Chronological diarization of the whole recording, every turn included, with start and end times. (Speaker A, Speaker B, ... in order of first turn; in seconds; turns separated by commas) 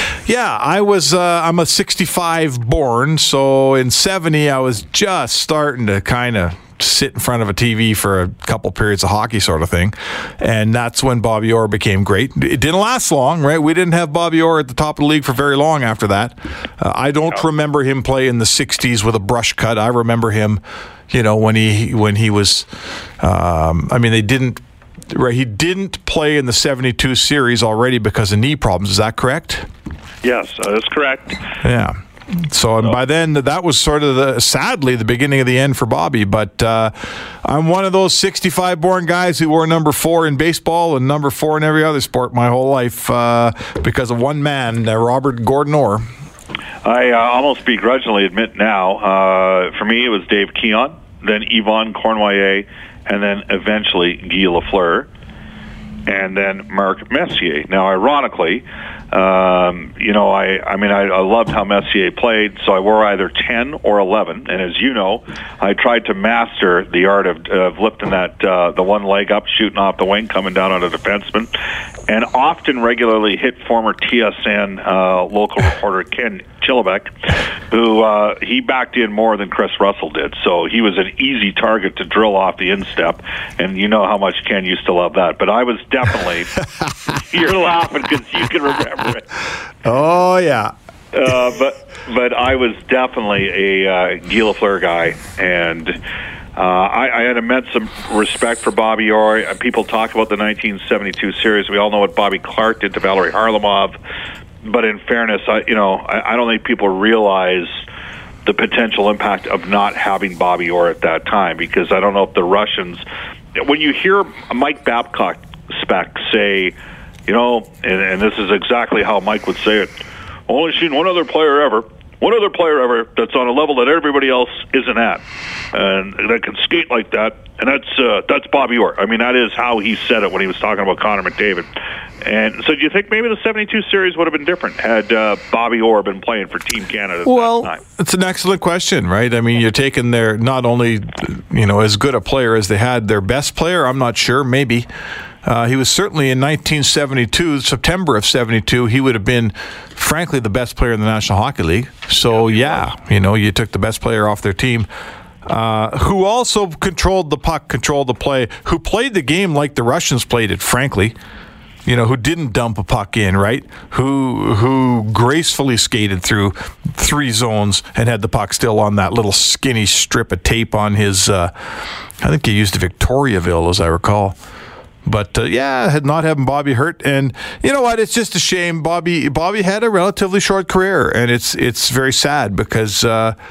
Speaker A: 0.3-22.7, Speaker A: 23.2-29.6, Speaker B: 30.2-31.4, Speaker A: 31.6-46.0, Speaker B: 46.8-55.1, Speaker B: 56.0-71.5, Speaker B: 72.1-89.3, Speaker A: 89.8-90.7, Speaker B: 91.1-96.0, Speaker B: 96.5-104.0, Speaker B: 104.6-107.8, Speaker B: 108.4-113.0, Speaker B: 113.5-116.7, Speaker B: 117.3-119.9, Speaker B: 120.5-125.2, Speaker B: 125.7-131.7, Speaker B: 132.2-137.8, Speaker A: 137.2-144.9, Speaker A: 145.4-154.9, Speaker B: 152.3-152.8, Speaker A: 155.4-161.1, Speaker A: 161.8-171.5, Speaker A: 172.2-174.3, Speaker A: 175.0-183.3